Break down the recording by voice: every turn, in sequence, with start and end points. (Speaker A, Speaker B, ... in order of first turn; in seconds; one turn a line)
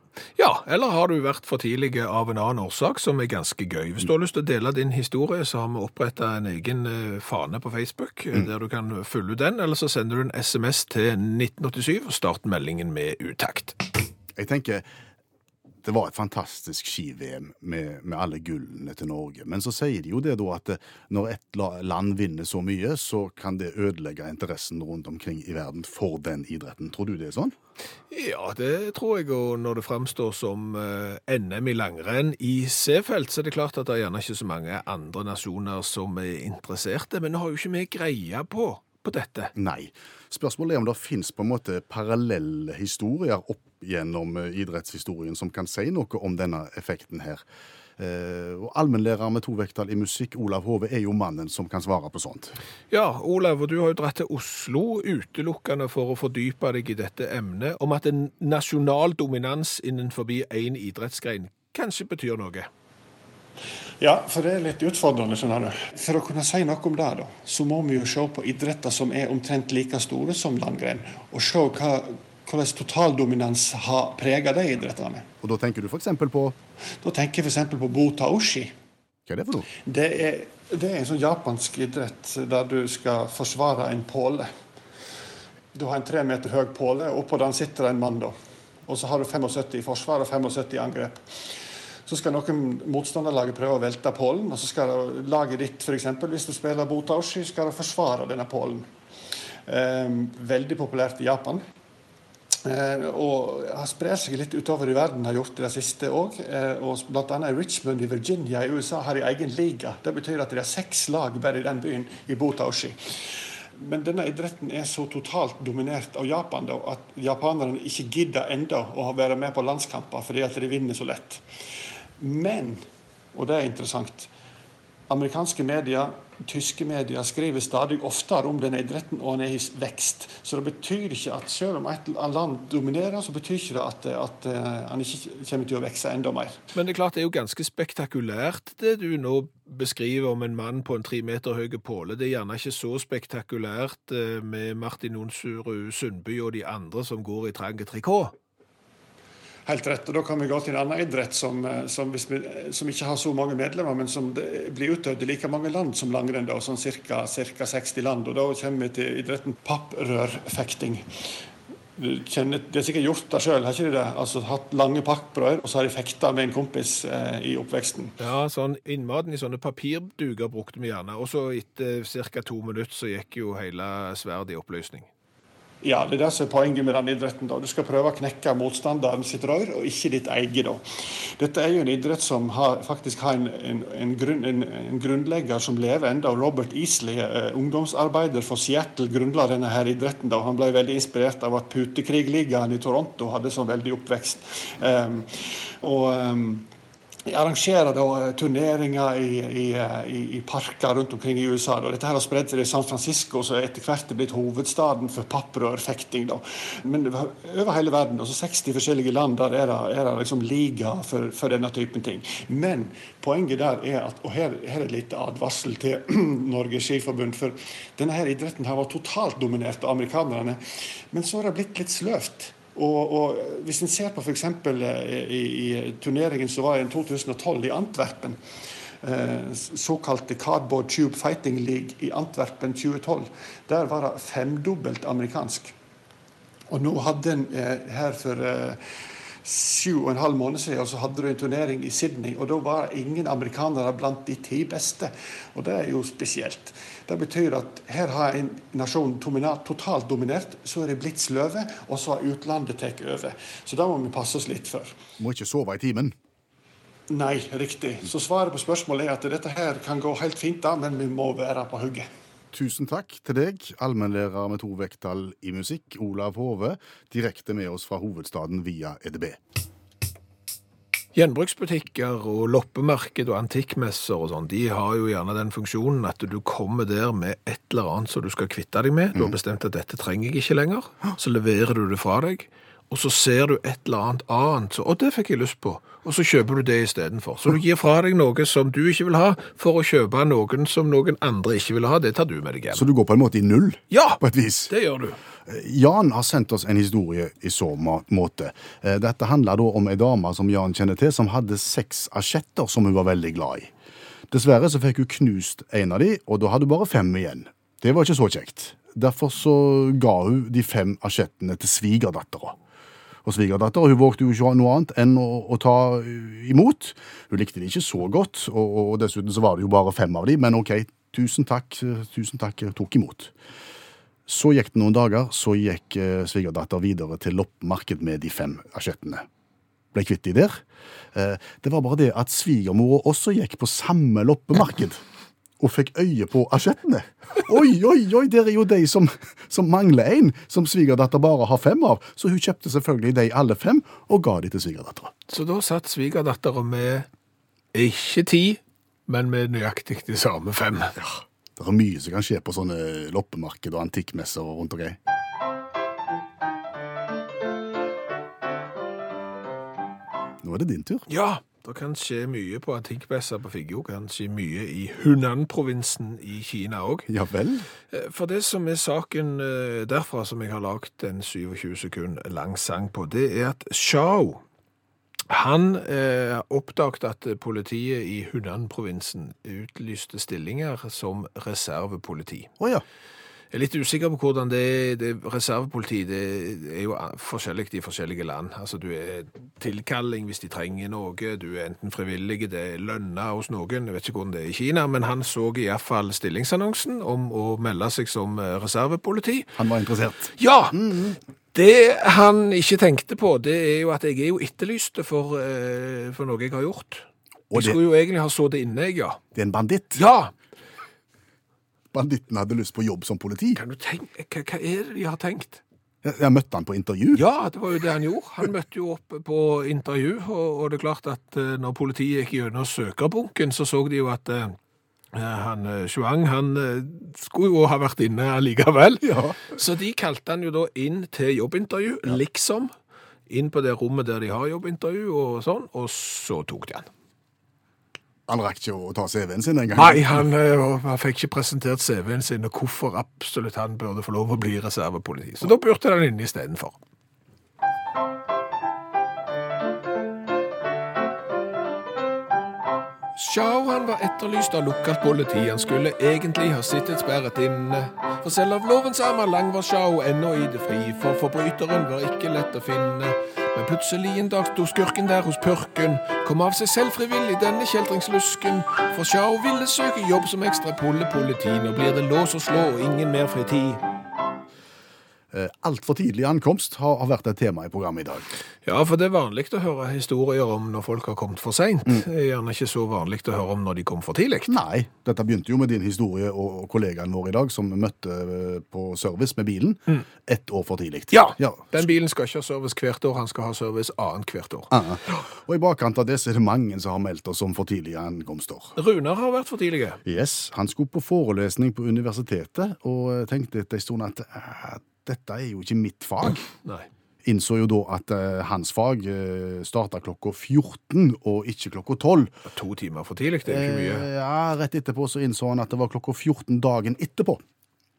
Speaker A: 0.4-13.8
Speaker B: 14.4-14.8
Speaker B: 15.8-27.6
Speaker A: 28.1-39.5
Speaker B: 39.5-47.4
Speaker B: 48.0-52.5
Speaker A: 52.9-62.7
Speaker C: 64.0-75.3
Speaker B: 75.4-76.5
Speaker C: 77.0-78.7
Speaker B: 79.3-79.7
Speaker C: 79.8-84.5
Speaker C: 85.7-88.3
Speaker C: 88.9-91.2
Speaker C: 92.1-98.9
Speaker C: 99.7-101.6
Speaker C: 102.6-113.0
Speaker C: 113.8-121.4
Speaker C: 122.2-122.8
Speaker C: 123.3-124.3
Speaker C: 125.1-136.6
Speaker A: 136.7-148.3
Speaker C: 149.7-161.1
Speaker C: 162.0-168.2
Speaker A: 168.2-175.1
Speaker C: 175.8-180.8
Speaker C: 181.4-196.7
Speaker C: 197.3-220.6
Speaker C: 221.1-228.4
Speaker C: 229.0-235.7
Speaker C: 236.7-238.8
Speaker C: 239.4-254.9
Speaker B: 255.2-256.1
Speaker C: 257.1-262.1
Speaker B: 262.5-269.4
Speaker A: 271.1-292.9
Speaker B: 292.7-294.7
Speaker A: 293.9-295.2
Speaker B: 295.5-303.7
Speaker B: 304.3-312.6
Speaker B: 313.2-323.3
Speaker B: 324.3-329.3
Speaker B: 329.9-330.6
Speaker B: 331.1-335.0
Speaker B: 335.6-345.1
Speaker A: 345.3-347.1
Speaker A: 347.7-351.0
Speaker B: 351.0-355.0
Speaker B: 360.4-361.1
Speaker A: 361.1-367.1
Speaker B: 367.1-367.7
Speaker A: 367.9-374.4
Speaker A: 375.3-382.5
Speaker A: 383.5-399.5
Speaker B: 399.6-401.2
Speaker A: 400.4-400.8
Speaker A: 401.5-409.2
Speaker B: 407.5-407.8
Speaker B: 409.4-410.0
Speaker A: 409.9-410.3
Speaker B: 411.9-413.6
Speaker A: 413.6-415.6
Speaker B: 416.0-417.2
Speaker A: 417.1-424.6
Speaker A: 425.1-432.7
Speaker B: 429.0-429.4
Speaker A: 433.3-436.9
Speaker B: 438.3-440.2
Speaker A: 439.7-446.8
Speaker A: 453.2-473.8
Speaker B: 475.3-478.3
Speaker A: 478.6-484.6
Speaker B: 484.5-491.9
Speaker A: 491.1-495.2
Speaker B: 494.7-498.8
Speaker A: 498.8-500.0
Speaker B: 500.1-506.5
Speaker B: 507.2-512.3
Speaker A: 512.5-514.1
Speaker B: 513.5-517.4